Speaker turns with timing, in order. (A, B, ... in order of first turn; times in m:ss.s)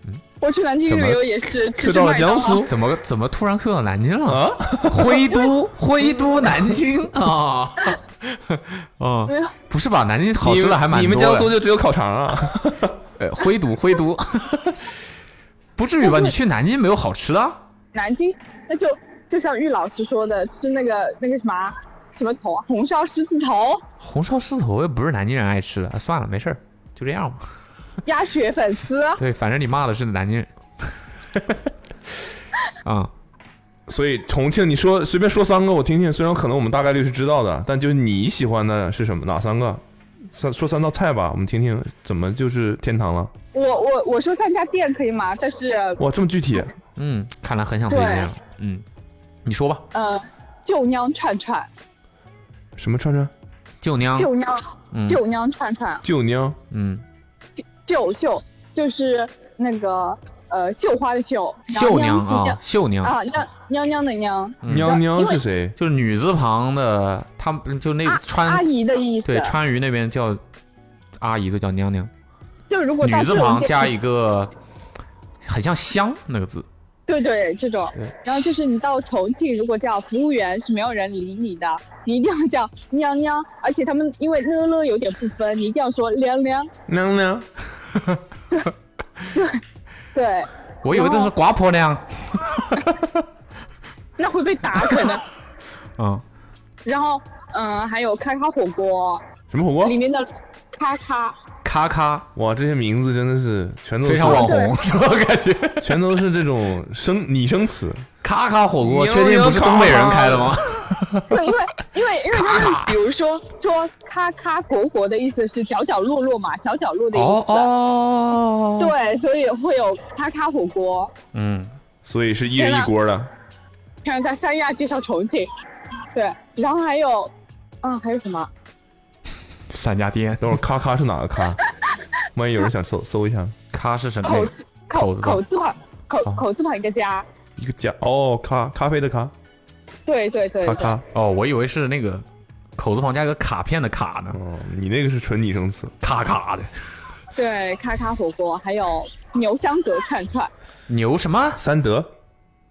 0:00.4-0:02.7 A
0:00.9-0:01.2 B
0:01.7-0:02.7 C
0:02.6-0:11.5 B
0:04.3-0:05.2 C
0:09.3-0:09.5 A
0:10.4-0:13.0 C
0:13.2-0:15.0 B
0:15.8-0:17.6 B
0:16.0-0:16.3 A
0:17.9-0:23.8 A
0:24.0-0:27.4 B
0:28.0-0:29.2 A
0:29.2-0:31.6 B
0:32.8-0:33.1 B
0:33.9-0:43.3 C
0:43.5-0:46.0 A
0:46.0-0:46.7 C
0:47.0-0:48.8 B
0:47.9-0:48.3 A
0:49.4-0:49.8 B
0:49.9-0:51.7 A
0:52.8-0:53.3 C
0:53.8-0:54.3 B
0:54.2-0:56.0 A
0:54.9-0:55.2 B
0:56.0-0:56.6 C
0:56.7-0:57.0 B
0:57.6-1:05.4 A
1:01.7-1:03.2 B
1:04.6-1:05.0 B
1:04.7-1:05.8 C
1:05.8-1:08.7 B
1:08.1-1:09.6 A
1:09.2-1:10.4 B
1:11.2-1:12.1 B
1:12.7-1:13.9 A
1:13.0-1:14.5 B
1:15.4-1:16.7 B
1:17.1-1:26.7 A
1:18.0-1:18.4 B
1:26.9-1:27.5 C
1:28.0-1:28.2 B
1:29.3-1:29.6 A
1:30.1-1:31.3 A
1:30.8-1:33.1 B
1:34.2-1:35.2 A
1:36.0-1:36.2 B
1:36.8-1:39.2 A
1:39.5-1:40.0 C
1:39.8-1:41.4 A
1:41.6-1:42.3 B
1:42.4-1:44.6 C
1:44.0-1:46.0 B
1:44.2-1:44.8 A
1:45.8-1:48.1 C
1:48.2-1:51.4 B
1:48.8-1:50.6 C
1:51.3-1:57.7 A
1:52.3-1:53.0 B
1:57.1-1:58.9 B
1:58.8-2:01.1 A
2:01.3-2:01.7 B
2:02.0-2:03.3 C
2:02.6-2:02.9 A
2:04.0-2:05.5 A
2:06.1-2:08.5 A
2:09.7-2:10.6 B
2:10.4-2:11.6 C
2:12.3-2:13.6 C
2:13.7-2:15.4 B
2:14.2-2:17.3 A
2:17.6-2:19.3 C
2:20.1-2:21.0 A
2:20.6-2:21.0 C
2:21.1-2:22.2 B
2:22.8-2:24.4 B
2:24.3-2:26.0 C
2:26.0-2:26.7 B
2:27.4-2:30.5 A
2:30.9-2:31.6 B
2:31.6-2:32.1 C